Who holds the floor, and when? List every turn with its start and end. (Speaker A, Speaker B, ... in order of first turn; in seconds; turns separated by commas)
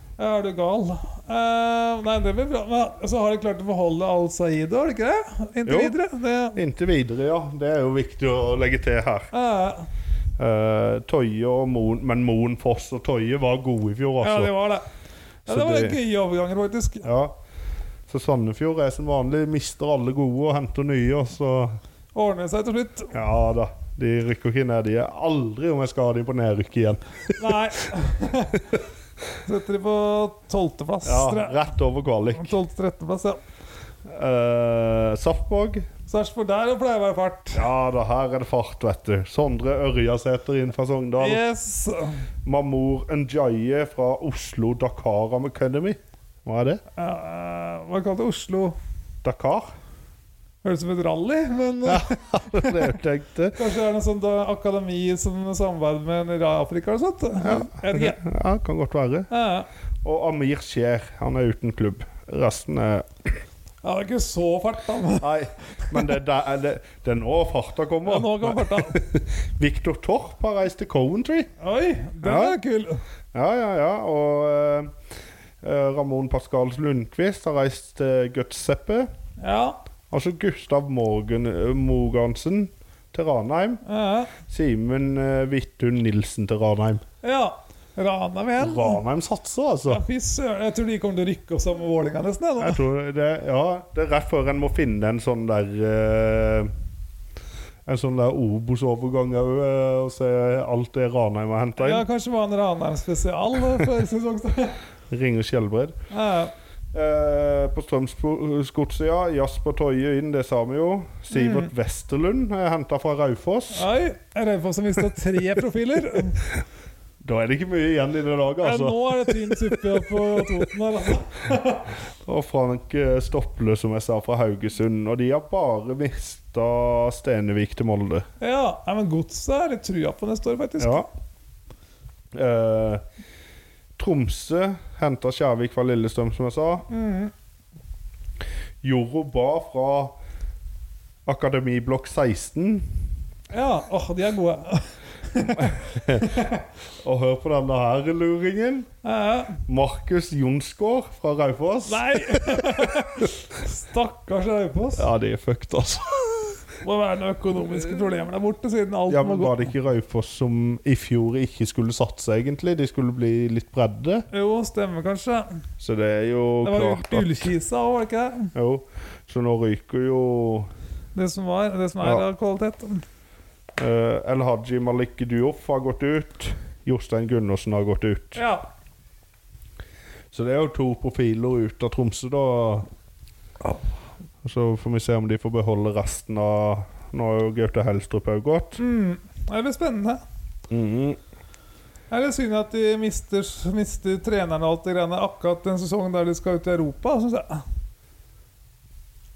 Speaker A: 0.2-6.6, Speaker B: 5.7-6.0, Speaker B: 6.5-9.3, Speaker A: 9.3-9.8, Speaker B: 10.4-14.5, Speaker A: 14.2-14.9, Speaker B: 15.5-16.0, Speaker A: 15.5-17.1, Speaker B: 17.0-17.4, Speaker B: 18.1-21.8, Speaker A: 22.1-23.1, Speaker B: 23.1-27.6, Speaker A: 27.4-28.7, Speaker A: 29.4-31.6, Speaker B: 31.0-32.6, Speaker A: 32.3-33.4, Speaker B: 34.0-35.9, Speaker A: 36.1-37.6, Speaker B: 37.5-41.4, Speaker A: 41.2-42.2, Speaker B: 42.4-46.8, Speaker A: 47.0-48.8, Speaker B: 49.2-49.7, Speaker A: 50.6-52.9, Speaker B: 51.9-53.6, Speaker A: 53.6-58.2, Speaker B: 57.4-59.3, Speaker A: 59.3-59.7, Speaker B: 60.0-63.3, Speaker A: 63.8-65.3, Speaker B: 65.2-71.5, Speaker A: 65.9-66.2, Speaker A: 68.0-69.0, Speaker A: 71.6-73.0, Speaker B: 72.2-72.5, Speaker B: 73.3-74.9, Speaker B: 75.6-79.1, Speaker A: 79.4-79.8, Speaker B: 80.1-83.8, Speaker A: 83.8-84.3, Speaker B: 84.5-87.0, Speaker A: 87.2-89.0, Speaker B: 88.6-90.0, Speaker A: 89.9-92.8, Speaker B: 92.6-96.7, Speaker B: 97.8-102.0, Speaker A: 101.8-104.8, Speaker B: 105.1-106.0, Speaker A: 106.1-106.5, Speaker B: 106.9-113.9, Speaker A: 111.3-111.7, Speaker A: 113.7-116.4, Speaker B: 117.2-120.5, Speaker A: 118.6-121.9, Speaker B: 122.2-128.2, Speaker A: 128.4-131.0, Speaker B: 130.8-131.1, Speaker B: 132.3-133.0, Speaker B: 134.0-136.8, Speaker A: 136.9-137.3, Speaker B: 138.8-140.2, Speaker B: 141.2-142.8, Speaker A: 143.5-146.6, Speaker B: 145.5-148.9, Speaker A: 149.0-149.6, Speaker B: 149.7-153.3, Speaker A: 151.8-155.1, Speaker B: 155.0-156.5, Speaker A: 156.8-159.7, Speaker B: 159.1-164.2, Speaker A: 164.3-165.5, Speaker B: 165.8-167.5, Speaker A: 166.6-168.5, Speaker B: 168.5-170.7, Speaker A: 171.1-173.0, Speaker B: 173.8-178.4, Speaker A: 178.3-178.7, Speaker B: 180.3-182.9, Speaker B: 184.4-188.8, Speaker A: 188.8-190.2, Speaker B: 190.7-191.2, Speaker A: 192.1-197.6